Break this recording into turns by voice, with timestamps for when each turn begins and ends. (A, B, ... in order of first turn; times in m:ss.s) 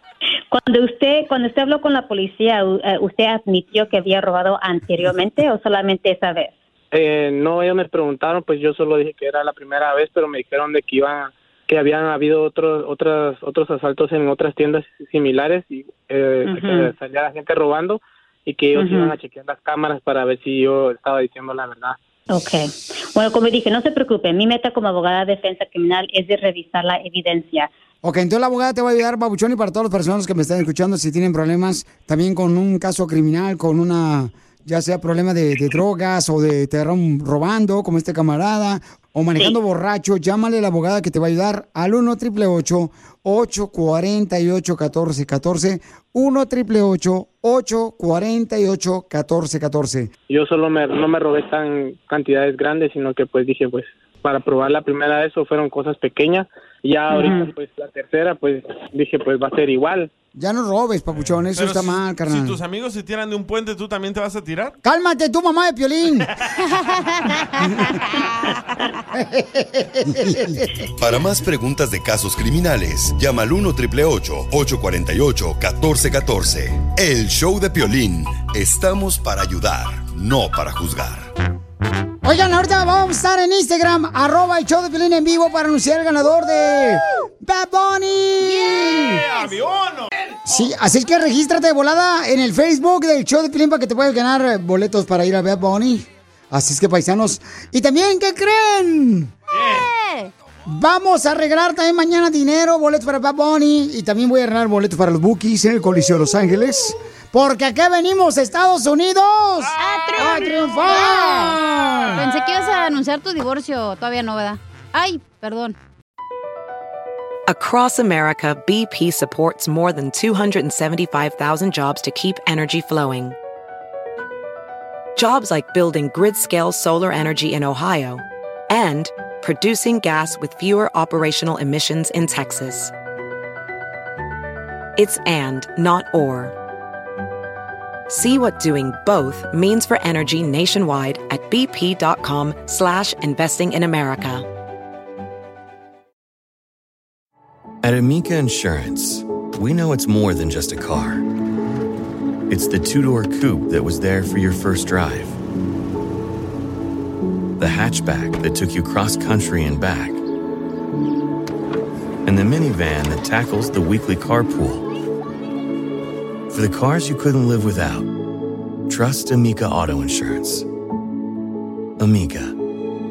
0:00.5-0:06.5 A
0:06.9-0:22.0 B
0:16.4-0:16.9 A
0:18.7-0:19.1 A
0:22.3-0:27.7 A
0:28.0-0:50.1 C
0:50.3-1:00.1 B
0:57.1-0:57.5 A
1:00.4-1:02.6 C
1:01.1-1:04.7 D
1:04.8-1:06.3 C
1:06.8-1:07.3 E
1:09.4-1:10.6 C
1:11.0-1:21.3 F
1:22.2-1:29.2 C
1:28.5-1:30.3 D
1:30.4-1:39.3 C
1:39.5-1:39.9 D
1:39.6-1:40.3 E
1:40.6-1:52.3 C
1:49.6-1:50.7 D
1:49.8-1:51.6 E
1:52.1-1:55.8 E
1:57.5-2:03.4 G
2:05.2-2:12.9 G
2:15.0-2:16.5 G
2:18.1-2:24.4 G
2:27.8-2:31.2 H
2:32.5-2:35.4 H
2:37.6-2:40.2 H
2:42.2-2:44.8 H
2:46.5-2:48.1 H
2:48.9-2:50.6 H
2:52.0-2:52.6 H